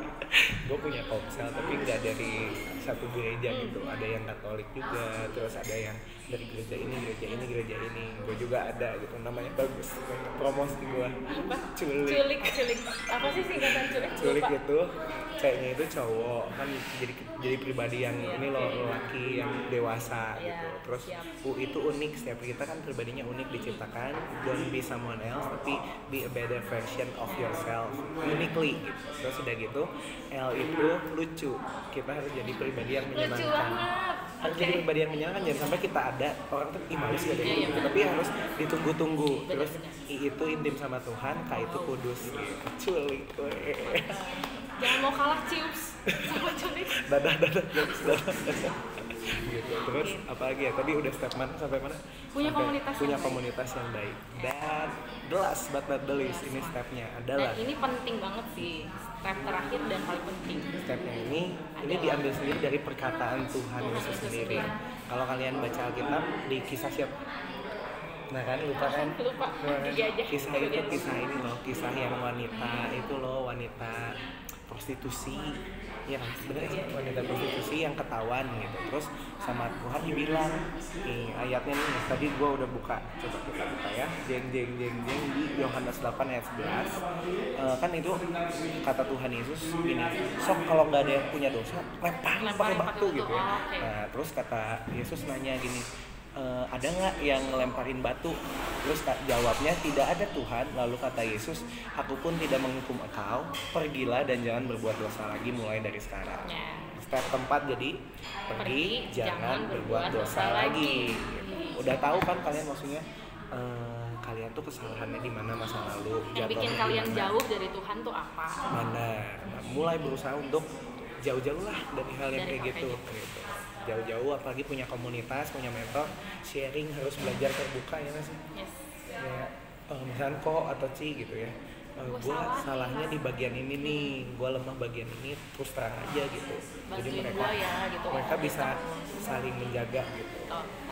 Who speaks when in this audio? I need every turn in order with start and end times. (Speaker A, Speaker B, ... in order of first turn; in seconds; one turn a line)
Speaker A: 0.6-11.2
Speaker B: 3.5-3.8
Speaker B: 11.3-14.5
Speaker A: 11.7-33.8
Speaker B: 18.2-18.9
Speaker B: 20.4-21.3
Speaker B: 27.3-27.7
Speaker B: 33.1-34.9
Speaker A: 34.4-44.1
Speaker B: 37.4-38.1
Speaker B: 39.4-40.0
Speaker B: 41.5-42.0
Speaker B: 43.8-47.1
Speaker A: 46.1-57.7
Speaker B: 49.8-50.3
Speaker B: 52.4-53.4
Speaker B: 54.3-54.8
Speaker B: 56.1-56.8
Speaker B: 57.4-60.7
Speaker A: 60.7-67.1
Speaker B: 61.8-62.5
Speaker B: 63.8-64.7
Speaker A: 68.3-74.2
Speaker B: 68.8-71.0
Speaker A: 74.7-87.0
Speaker B: 76.6-77.2
Speaker A: 87.6-88.3
Speaker A: 88.8-95.9
Speaker B: 92.4-93.9
Speaker A: 96.4-108.0
Speaker B: 106.4-107.0
Speaker A: 108.5-117.3
Speaker B: 108.5-111.9
Speaker B: 116.3-118.7
Speaker A: 118.7-120.7
Speaker A: 121.2-128.4
Speaker B: 122.3-123.0
Speaker B: 128.5-128.8
Speaker A: 129.2-137.6
Speaker B: 132.0-132.8
Speaker B: 133.8-134.2
Speaker B: 136.9-139.8
Speaker A: 138.1-140.5
Speaker B: 140.5-140.7